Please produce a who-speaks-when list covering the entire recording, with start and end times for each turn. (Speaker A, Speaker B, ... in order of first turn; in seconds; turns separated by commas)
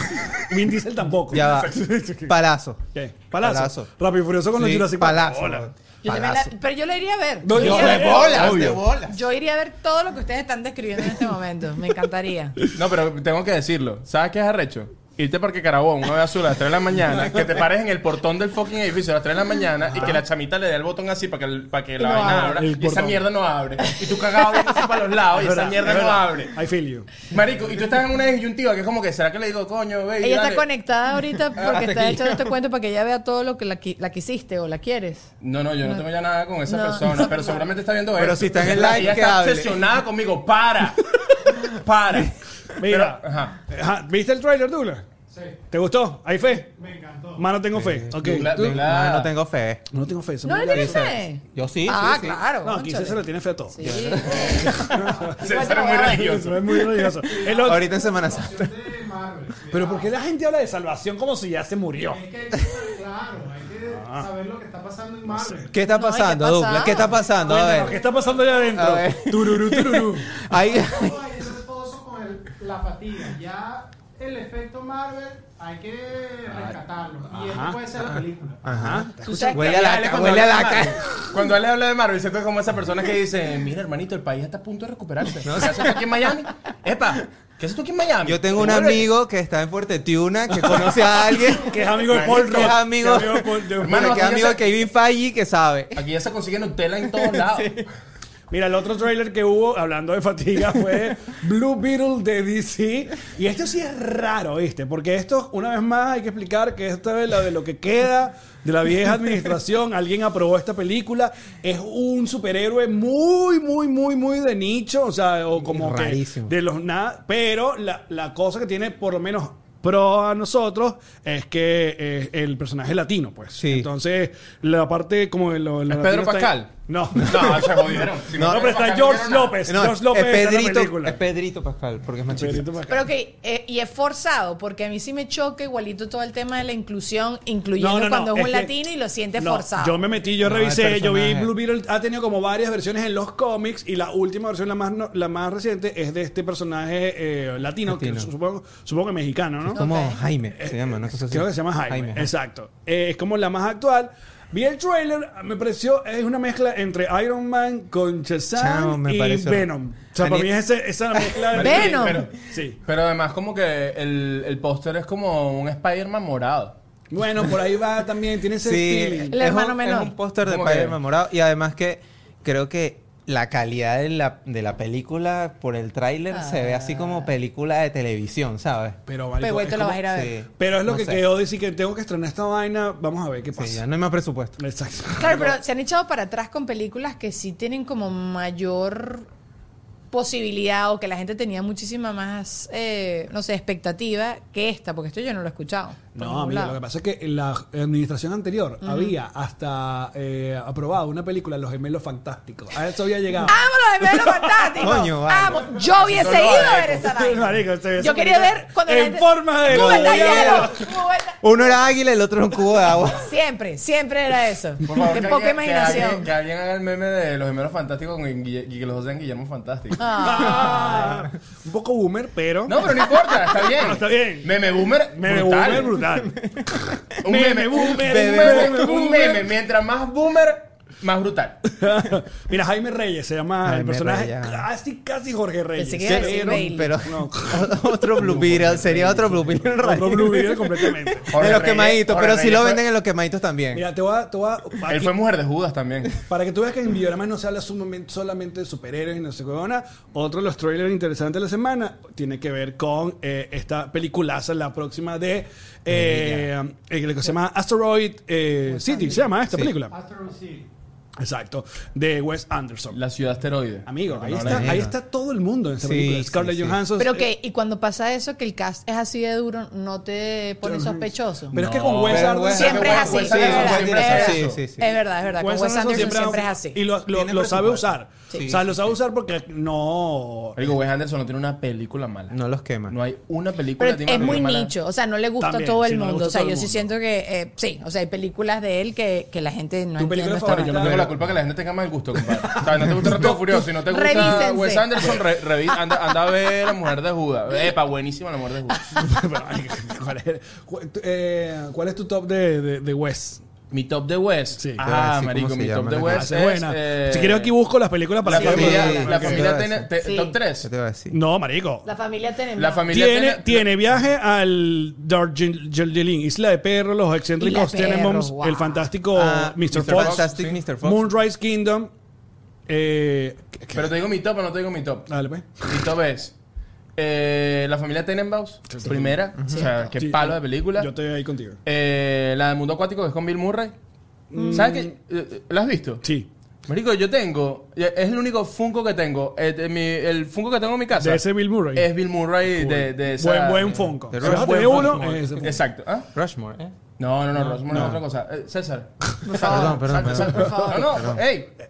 Speaker A: 0.3-2.4, Speaker B: 1.3-2.8, Speaker C: 1.4-1.8, Speaker A: 2.9-5.7, Speaker B: 3.4-3.9, Speaker B: 4.5-6.5, Speaker D: 6.0-8.5, Speaker A: 7.4-8.8, Speaker B: 7.5-9.2, Speaker C: 7.6-9.0, Speaker D: 9.0-12.6, Speaker C: 12.7-26.6, Speaker A: 19.9-20.2, Speaker D: 22.0-22.6, Speaker A: 22.1-23.2, Speaker D: 23.9-24.7, Speaker A: 25.4-27.1, Speaker C: 27.2-30.6, Speaker D: 30.2-35.3, Speaker C: 31.6-31.9, Speaker B: 31.6-32.5, Speaker C: 35.4-43.5, Speaker D: 36.7-37.6, Speaker B: 38.1-39.8, Speaker A: 42.8-45.0, Speaker E: 45.3-45.6, Speaker A: 45.7-46.7, Speaker E: 46.7-47.5, Speaker A: 47.4-48.8, Speaker B: 47.7-49.9, Speaker C: 48.1-49.3, Speaker A: 49.9-51.1, Speaker D: 50.4-56.4, Speaker B: 50.7-52.4, Speaker A: 52.6-57.9, Speaker B: 53.8-55.0, Speaker C: 55.4-56.8, Speaker E: 57.2-60.1, Speaker B: 57.5-58.7, Speaker A: 59.7-62.2, Speaker E: 62.0-65.7, Speaker A: 63.9-64.3, Speaker A: 65.3-65.7, Speaker B: 65.6-68.0, Speaker D: 65.8-67.2, Speaker E: 67.1-68.9, Speaker A: 67.4-70.4, Speaker B: 68.7-71.2, Speaker E: 70.6-79.0, Speaker A: 76.5-78.2, Speaker B: 78.6-81.1, Speaker A: 78.7-79.7, Speaker D: 79.2-79.9, Speaker C: 79.5-89.1, Speaker B: 85.4-86.0, Speaker B: 88.2-96.0, Speaker A: 91.5-94.3, Speaker C: 92.1-92.8, Speaker C: 93.8-94.7, Speaker C: 95.9-97.9, Speaker B: 97.1-97.8, Speaker A: 98.5-131.2, Speaker B: 115.6-116.5, Speaker B: 123.6-123.9, Speaker C: 125.9-129.6, Speaker B: 128.3-128.8, Speaker B: 129.7-132.6, Speaker A: 132.3-133.1, Speaker D: 132.9-140.0, Speaker A: 137.8-138.7, Speaker A: 139.4-149.8, Speaker B: 140.4-141.5, Speaker B: 147.9-148.3, Speaker B: 149.7-152.3, Speaker D: 149.7-150.2, Speaker A: 150.6-162.8, Speaker B: 158.6-160.5, Speaker B: 161.1-161.4, Speaker C: 161.5-166.8, Speaker D: 161.6-162.3, Speaker A: 167.1-169.4, Speaker B: 168.6-179.0, Speaker D: 169.3-170.1, Speaker C: 170.4-171.0, Speaker D: 176.3-177.3, Speaker A: 179.1-180.0, Speaker D: 179.4-180.4, Speaker B: 180.1-181.3, Speaker A: 180.6-183.8, Speaker B: 183.6-184.6, Speaker A: 184.6-185.6, Speaker D: 185.2-189.2, Speaker D: 190.1-196.8, Speaker A: 196.1-205.0, Speaker D: 198.8-199.2, Speaker D: 203.4-211.7, Speaker B: 204.8-205.8, Speaker C: 206.0-207.1, Speaker A: 207.0-210.8, Speaker B: 209.7-210.8, Speaker B: 211.4-213.3, Speaker D: 213.2-216.3, Speaker C: 214.8-220.3, Speaker D: 220.0-221.1, Speaker A: 220.2-222.9, Speaker C: 222.7-225.9, Speaker A: 223.6-224.5, Speaker A: 225.1-229.4, Speaker B: 226.2-226.8, Speaker C: 227.2-231.6, Speaker B: 227.9-228.9, Speaker A: 231.7-237.7, Speaker B: 233.6-234.7, Speaker D: 235.7-236.9, Speaker B: 236.1-243.9, Speaker C: 238.2-239.7, Speaker A: 239.8-241.3, Speaker C: 241.3-242.9, Speaker A: 243.7-245.1, Speaker C: 244.9-246.2, Speaker A: 246.3-259.9, Speaker B: 255.9-256.5, Speaker D: 258.7-259.2, Speaker E: 259.9-260.7, Speaker A: 261.2-263.0, Speaker C: 262.9-264.8, Speaker A: 263.9-267.2, Speaker B: 264.4-264.9, Speaker B: 265.8-266.8, Speaker D: 267.0-271.6, Speaker A: 270.6-273.8, Speaker C: 271.5-274.6, Speaker B: 272.1-274.9, Speaker D: 272.5-276.8, Speaker A: 275.4-280.6, Speaker B: 277.1-278.9, Speaker C: 280.6-282.4, Speaker B: 282.3-282.9, Speaker C: 282.9-284.7, Speaker D: 283.8-291.0, Speaker A: 285.4-286.9, Speaker A: 290.0-291.1, Speaker C: 290.4-298.9, Speaker A: 292.3-294.4, Speaker D: 293.9-295.1, Speaker A: 298.9-303.4, Speaker C: 303.7-307.5, Speaker A: 304.6-304.8, Speaker B: 304.8-306.3, Speaker A: 306.1-309.5, Speaker C: 308.2-310.7, Speaker B: 308.3-309.9, Speaker D: 310.0-310.4, Speaker B: 310.6-311.2, Speaker A: 311.1-311.9, Speaker D: 311.8-312.9, Speaker C: 312.6-313.7, Speaker A: 312.9-320.3, Speaker D: 317.4-318.9, Speaker B: 319.1-321.1, Speaker C: 319.7-320.6, Speaker A: 320.8-321.9, Speaker A: 322.7-323.9, Speaker C: 323.7-325.1, Speaker A: 325.1-325.7, Speaker C: 325.6-326.3, Speaker C: 327.0-330.9, Speaker A: 328.7-329.2, Speaker D: 329.5-329.9, Speaker A: 329.9-331.6, Speaker C: 331.6-333.7, Speaker A: 334.3-334.9, Speaker D: 334.3-334.7, Speaker C: 334.5-336.0, Speaker A: 336.0-336.3, Speaker C: 336.7-346.1, Speaker A: 341.0-341.9, Speaker A: 342.5-345.5, Speaker B: 344.1-345.6, Speaker B: 346.1-346.7, Speaker C: 347.0-351.5, Speaker A: 347.4-348.0, Speaker B: 347.7-348.0, Speaker D: 349.2-351.1, Speaker B: 349.4-351.2